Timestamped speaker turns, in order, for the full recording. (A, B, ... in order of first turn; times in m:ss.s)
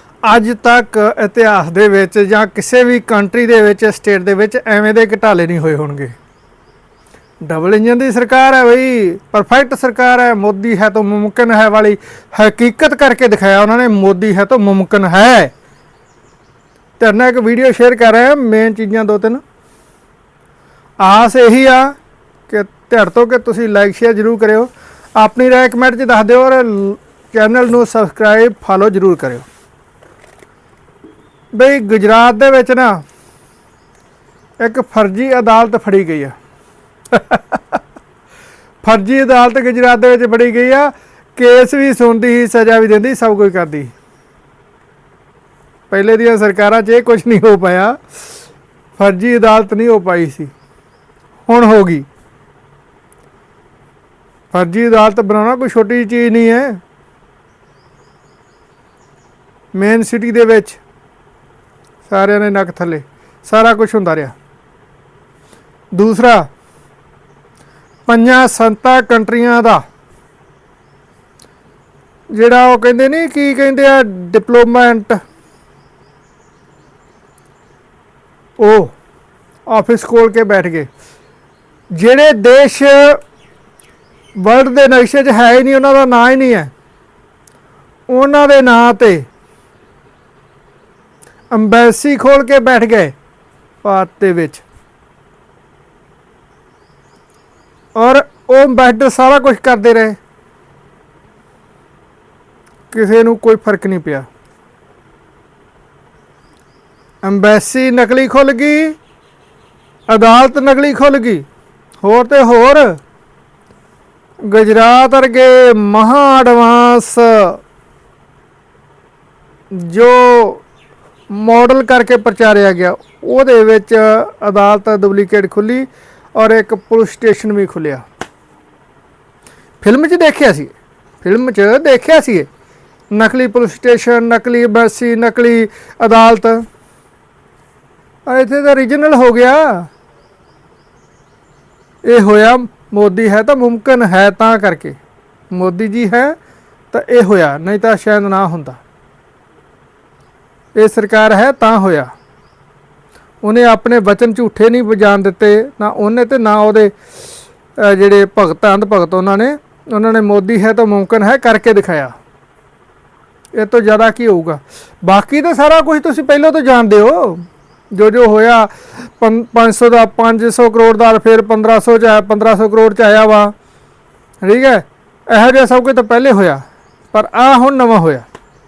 0:00.2-0:06.2 A
0:07.4-0:15.5 A
0:17.0-0:19.4 A
0:21.0-0:22.0 A
0:22.5-0:29.5 A
0:31.6-0:33.0 A
0:34.6-0:36.4 A
0:37.1-0:37.8 A
0:38.8-0:43.9 A
0:45.9-0:48.0 A
0:49.0-0:50.5 A
0:51.5-0:52.1 A
0:54.5-0:56.8 A
0:59.8-1:00.8 A
1:02.1-1:04.4 A
1:05.9-1:06.5 A
1:08.1-1:09.8 A
1:12.3-1:15.2 A
1:18.6-1:19.0 A
1:19.7-1:20.9 A
1:21.9-1:23.2 A
1:24.4-1:26.7 A
1:28.1-1:29.2 A
1:31.5-1:33.1 A
1:33.8-1:34.6 A
1:38.0-1:40.2 A
1:42.9-1:44.3 A
1:47.2-1:49.0 A
1:50.1-1:51.5 A
1:52.0-1:53.0 A
1:54.4-1:57.6 A
1:59.7-2:00.6 A
2:01.3-2:08.0 A
2:09.8-2:12.5 A
2:13.1-2:16.6 A
2:18.3-2:19.9 A
2:22.0-2:25.0 A
2:25.5-2:26.4 A
2:26.9-2:28.8 A
2:30.8-2:32.1 A
2:33.4-2:36.9 A
2:37.8-2:42.1 A
2:43.5-2:53.5 A
2:54.4-2:56.6 A
2:57.1-2:58.3 A